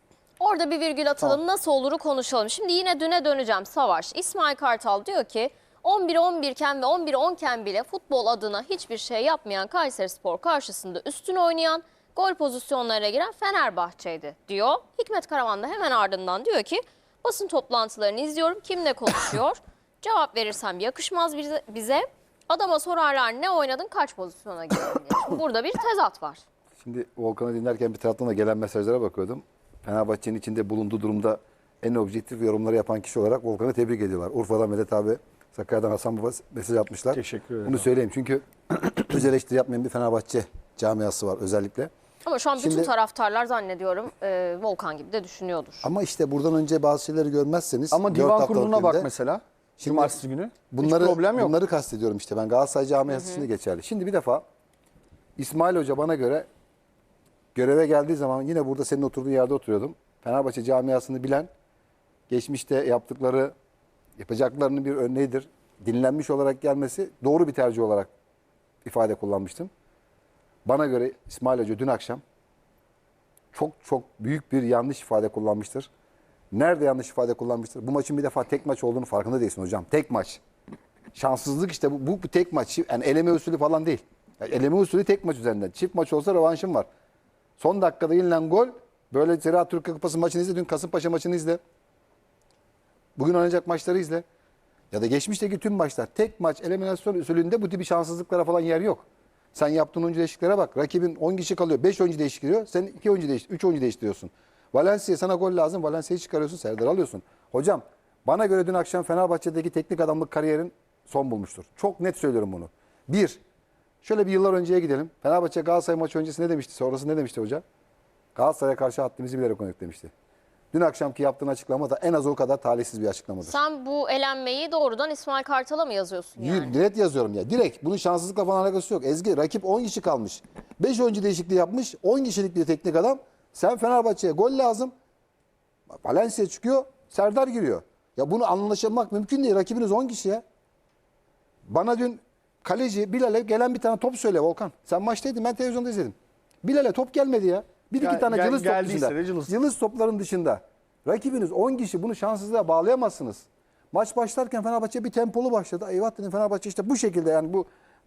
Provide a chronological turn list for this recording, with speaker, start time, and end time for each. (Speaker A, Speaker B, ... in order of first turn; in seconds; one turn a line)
Speaker A: 0.4-26.4
Speaker B: 26.8-41.9
Speaker C: 37.1-37.9
Speaker A: 42.3-45.9
Speaker B: 42.6-42.9
Speaker B: 45.8-49.1
Speaker C: 47.9-51.6
Speaker B: 49.8-50.2
Speaker B: 50.7-54.4
Speaker A: 53.1-53.5
Speaker B: 55.4-56.5
Speaker B: 57.5-61.5
Speaker B: 62.3-63.5
Speaker B: 64.2-68.1
Speaker B: 68.8-69.7
Speaker B: 70.7-72.2
Speaker B: 73.5-75.9
Speaker B: 76.5-80.4
Speaker B: 81.1-86.9
Speaker B: 87.6-91.6
Speaker B: 93.2-94.2
Speaker B: 94.9-113.4
Speaker B: 114.0-117.6
Speaker B: 118.3-120.1
Speaker B: 120.7-123.6
Speaker A: 123.4-126.8
Speaker B: 126.4-134.9
Speaker B: 135.9-140.4
Speaker B: 141.7-157.7
Speaker C: 148.0-149.5